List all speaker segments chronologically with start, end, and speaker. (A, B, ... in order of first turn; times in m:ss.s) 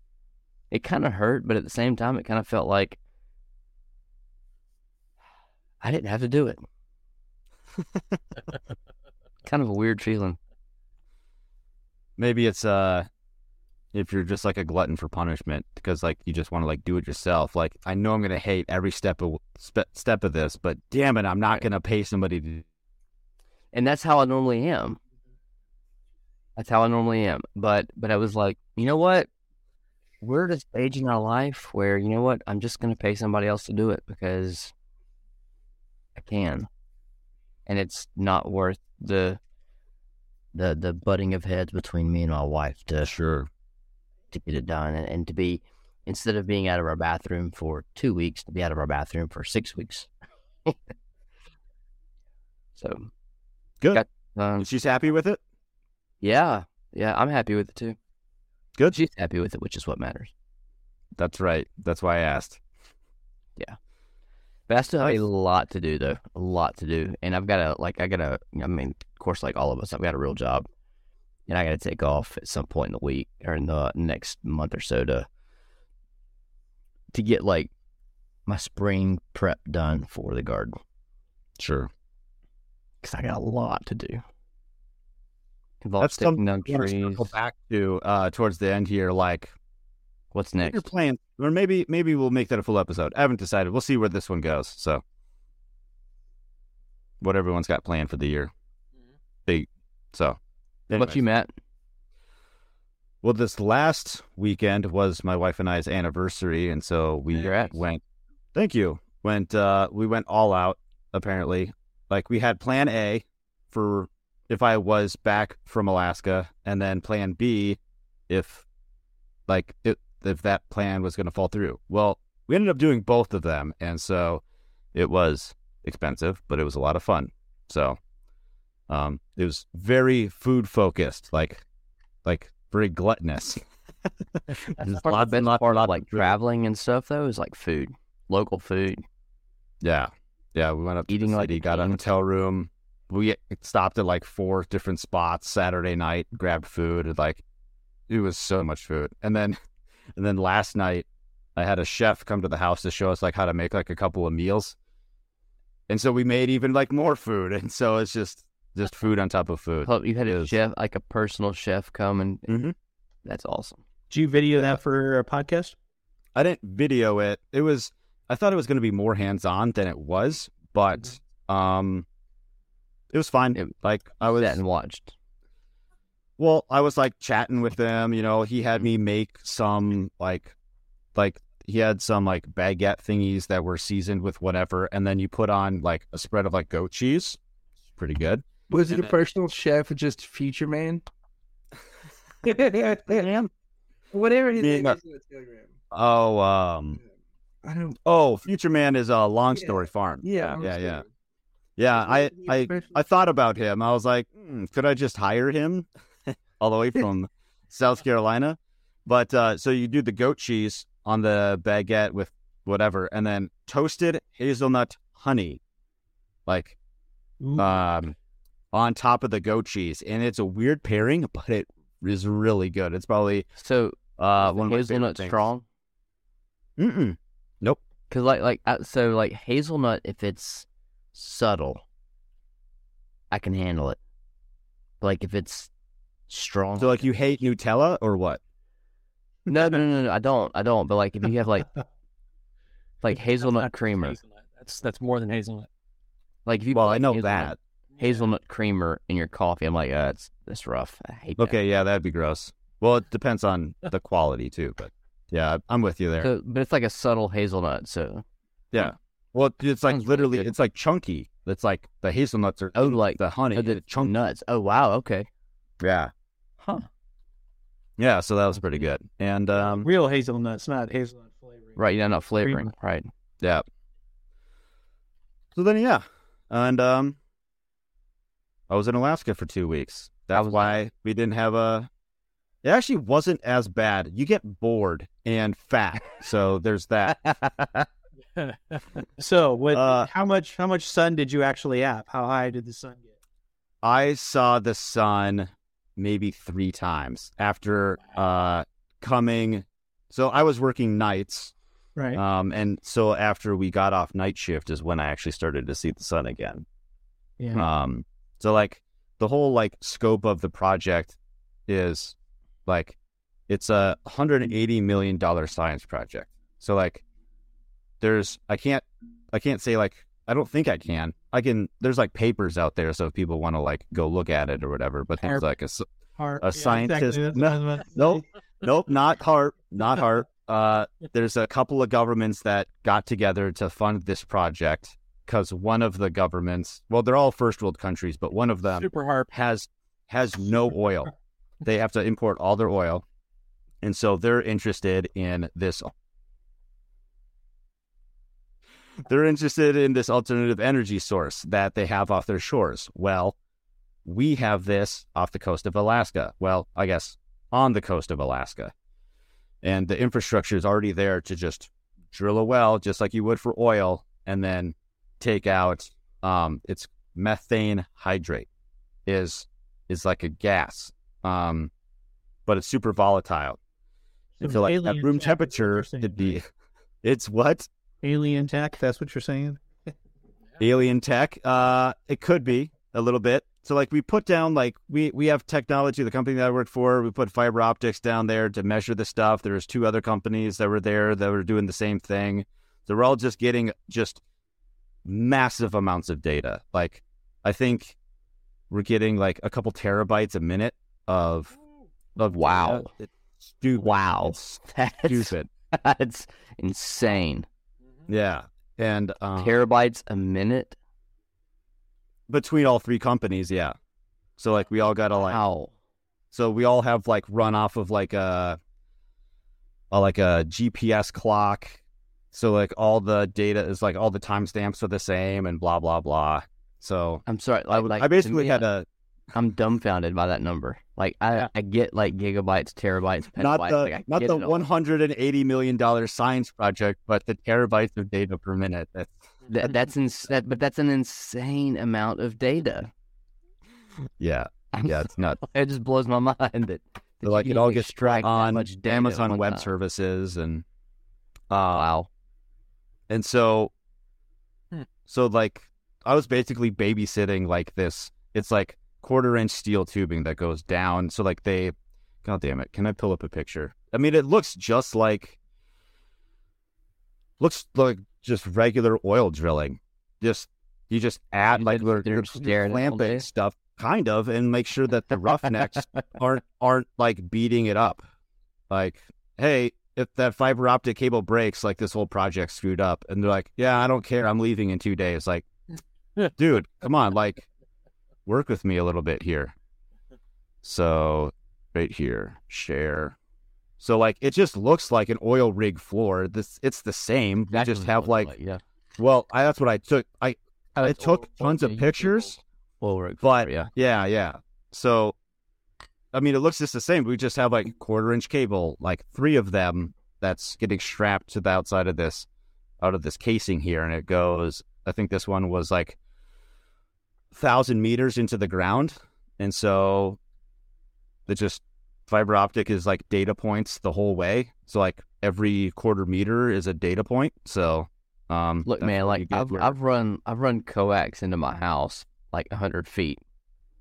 0:00.7-0:03.0 A
0:05.8-0:06.6 A
0:09.4-0:10.4 A
0:12.2-0:13.1 B
0:13.9-0:22.6 B
0:23.7-0:25.0 A
0:26.6-0:29.3 A
0:30.2-0:34.7 A
0:36.2-0:36.7 A
0:37.7-0:39.4 A
0:40.5-0:43.1 A
0:43.0-0:43.5 B
0:44.3-0:50.1 A
0:52.8-0:53.1 A
0:53.9-0:54.7 A
0:54.6-0:55.4 B
0:56.2-0:58.0 A
0:58.9-1:00.3 A
1:01.2-1:02.6 B
1:04.7-1:10.7 A
1:05.0-1:05.2 B
1:11.5-1:15.3 A
1:17.1-1:17.7 A
1:18.5-1:20.8 A
1:21.6-1:21.9 B
1:23.0-1:24.2 A
1:25.8-1:27.3 A
1:26.0-1:29.5 B
1:30.3-1:30.8 A
1:30.6-1:35.0 B
1:37.2-1:38.5 B
1:39.5-1:40.4 B
1:40.9-1:41.2 B
1:41.0-1:41.5 A
1:43.2-1:48.0 B
1:47.3-1:47.8 A
1:48.6-1:57.8 B
1:58.3-1:58.6 B
1:59.5-2:04.4 B
2:04.9-2:08.0 B
2:08.9-2:11.6 B
2:12.2-2:13.6 B
2:14.5-2:16.3 B
2:15.0-2:19.0 A
2:19.8-2:27.4 B
2:21.1-2:22.0 A
2:28.1-2:29.6 B
2:30.2-2:34.8 B
2:35.9-2:40.6 B
2:39.8-2:42.6 A
2:42.5-2:42.7 B
2:43.2-2:43.8 A
2:44.1-2:45.8 C
2:46.4-2:52.1 B
2:53.1-2:54.6 B
2:53.6-2:55.1 A
2:56.4-3:00.5 B
3:01.2-3:07.4 B
3:08.0-3:09.1 B
3:08.7-3:11.0 D
3:12.4-3:13.3 D
3:13.1-3:13.5 B
3:14.1-3:15.7 D
3:14.6-3:15.0 B
3:15.9-3:17.0 B
3:17.6-3:18.0 D
3:18.0-3:21.0 B
3:19.5-3:21.1 D
3:21.8-3:35.6 B
3:21.9-3:23.0 D
3:36.5-3:36.8 B
3:37.4-3:37.7 C
3:37.6-3:38.2 B
3:38.7-3:43.5 B
3:43.6-3:45.6 A
3:44.2-3:45.5 B
3:46.8-3:47.8 B
3:48.1-3:51.8 A
3:53.3-3:54.0 A
3:55.0-3:55.7 A
3:56.3-3:57.1 A
3:56.8-3:58.4 B
3:59.5-4:01.8 A
4:03.0-4:04.2 A
4:03.4-4:05.7 E
4:06.5-4:11.6 A
4:06.7-4:07.6 B
4:08.0-4:08.3 E
4:11.4-4:16.3 B
4:16.2-4:18.2 A
4:18.7-4:24.1 B
4:19.9-4:20.5 A
4:22.8-4:25.3 A
4:25.8-4:26.1 B
4:26.6-4:26.9 A
4:28.0-4:29.9 B
4:29.6-4:31.8 C
4:31.8-4:33.1 A
4:32.4-4:32.7 C
4:35.6-4:37.2 B
4:38.7-4:41.9 B
4:40.3-4:40.8 A
4:42.6-4:47.2 B
4:47.2-4:47.9 A
4:48.4-4:49.0 E
4:49.2-4:53.1 C
4:49.7-4:50.1 B
4:53.8-5:01.5 B
5:02.0-5:02.2 C
5:02.2-5:06.6 B
5:07.6-5:11.2 B
5:11.7-5:12.2 B
5:12.7-5:13.0 B
5:13.5-5:17.0 B
5:18.0-5:25.8 B
5:26.2-5:28.2 C
5:26.4-5:41.1 B
5:38.7-5:39.3 E
5:41.6-5:43.0 B
5:43.8-5:45.9 B
5:49.1-5:53.4 B
5:54.0-5:58.7 B
5:59.6-6:08.5 B
6:09.1-6:11.7 B
6:12.5-6:13.6 B
6:14.4-6:16.4 C
6:14.4-6:16.5 B
6:17.0-6:17.7 B
6:18.0-6:19.6 C
6:20.6-6:34.2 B
6:35.0-6:38.0 B
6:38.7-6:41.6 B
6:42.2-6:45.5 B
6:42.2-6:42.9 A
6:43.8-6:47.5 A
6:48.1-6:49.6 B
6:49.4-6:50.8 A
6:52.3-6:53.8 B
6:54.4-6:55.4 B
6:55.2-6:55.7 A
6:56.3-6:58.6 B
6:59.9-7:01.8 B
7:02.3-7:08.9 B
7:07.3-7:08.6 A
7:09.3-7:14.6 A
7:13.4-7:19.2 B
7:19.5-7:22.9 A
7:24.2-7:25.4 B
7:24.7-7:29.7 A
7:27.2-7:30.6 B
7:31.5-7:31.9 B
7:31.7-7:32.1 A
7:33.1-7:33.7 B
7:35.1-7:45.4 B
7:47.4-7:58.0 B
7:51.5-7:53.3 A
7:55.2-7:56.0 A
7:58.7-8:05.4 B
8:06.4-8:07.5 B
8:08.3-8:09.5 B
8:10.6-8:13.2 B
8:13.8-8:18.3 B
8:17.5-8:18.6 A
8:19.0-8:22.4 B
8:20.8-8:23.7 A
8:23.2-8:25.2 B
8:26.1-8:32.3 B
8:32.8-8:36.0 B
8:37.3-8:40.2 B
8:41.3-8:49.8 B
8:48.6-8:53.2 A